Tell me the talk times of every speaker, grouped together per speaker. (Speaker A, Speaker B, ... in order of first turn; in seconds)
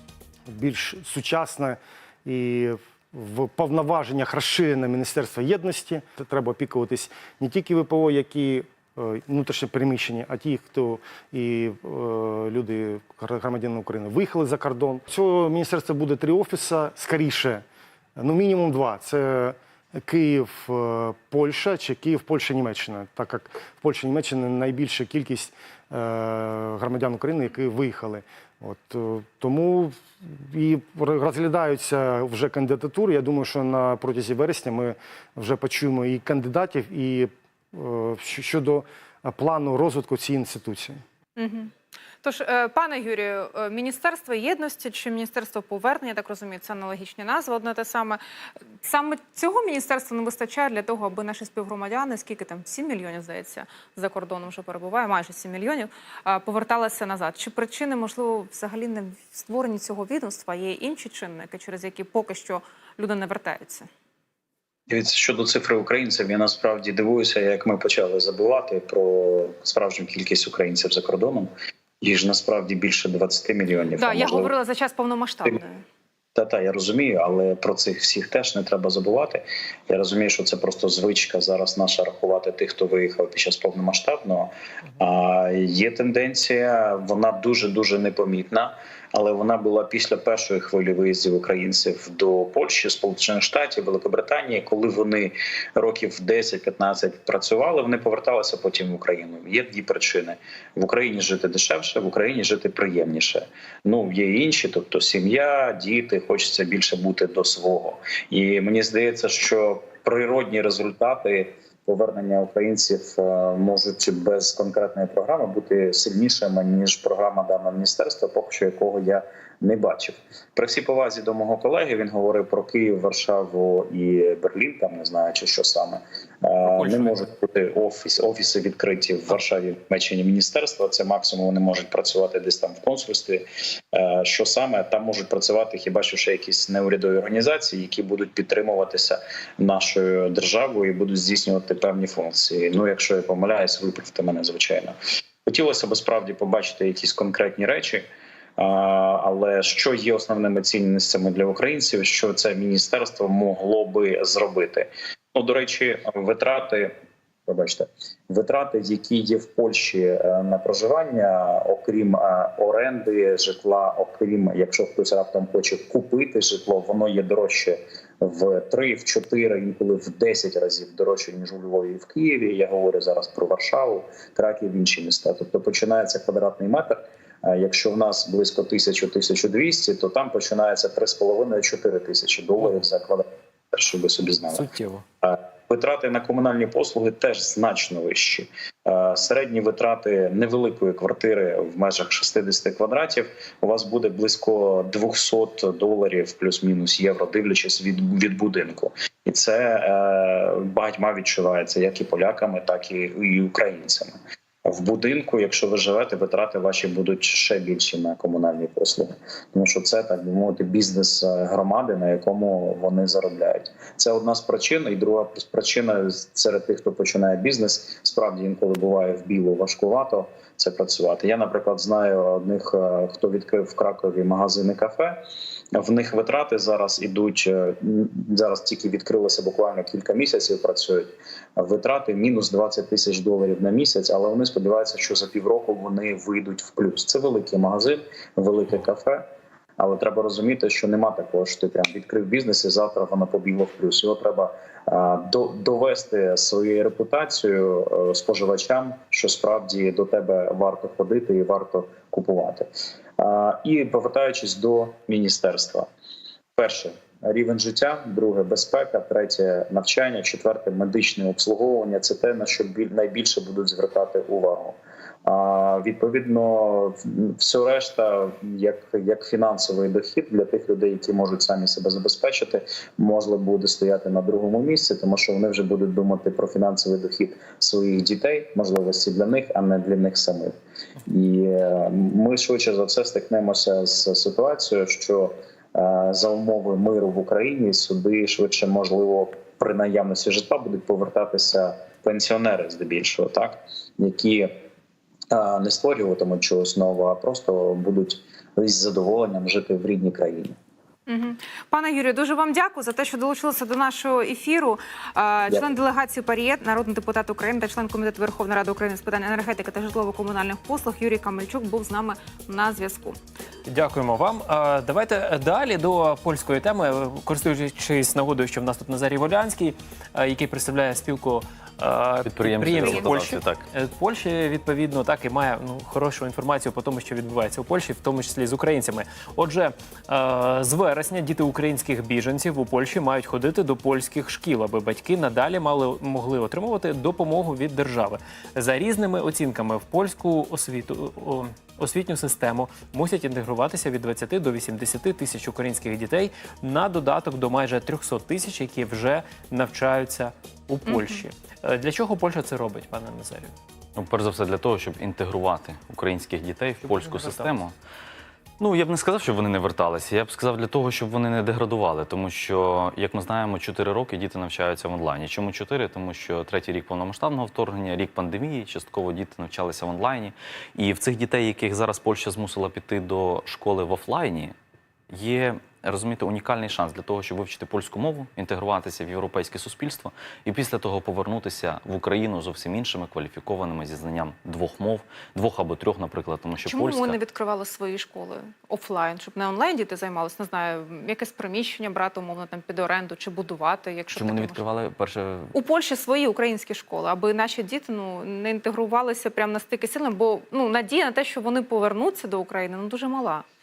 Speaker A: 0.5-17.6, 18.2-41.0
Speaker B: 41.4-48.2, 48.8-63.9, 74.0-75.8, 301.1-313.2, 350.9-351.2, 386.6-394.6, 395.5-403.4
Speaker C: 64.9-71.5, 72.0-74.5, 76.3-144.9, 145.5-148.1, 148.6-156.9, 157.5-184.7, 185.2-225.2, 225.7-239.2, 239.8-255.9, 256.6-280.5, 281.1-294.5, 295.3-300.6
Speaker D: 126.7-127.3, 184.5-185.1, 313.7-353.6, 356.8-357.5
Speaker E: 322.2-323.6, 354.0-357.7, 358.6-374.5, 375.1-387.2, 394.1-395.5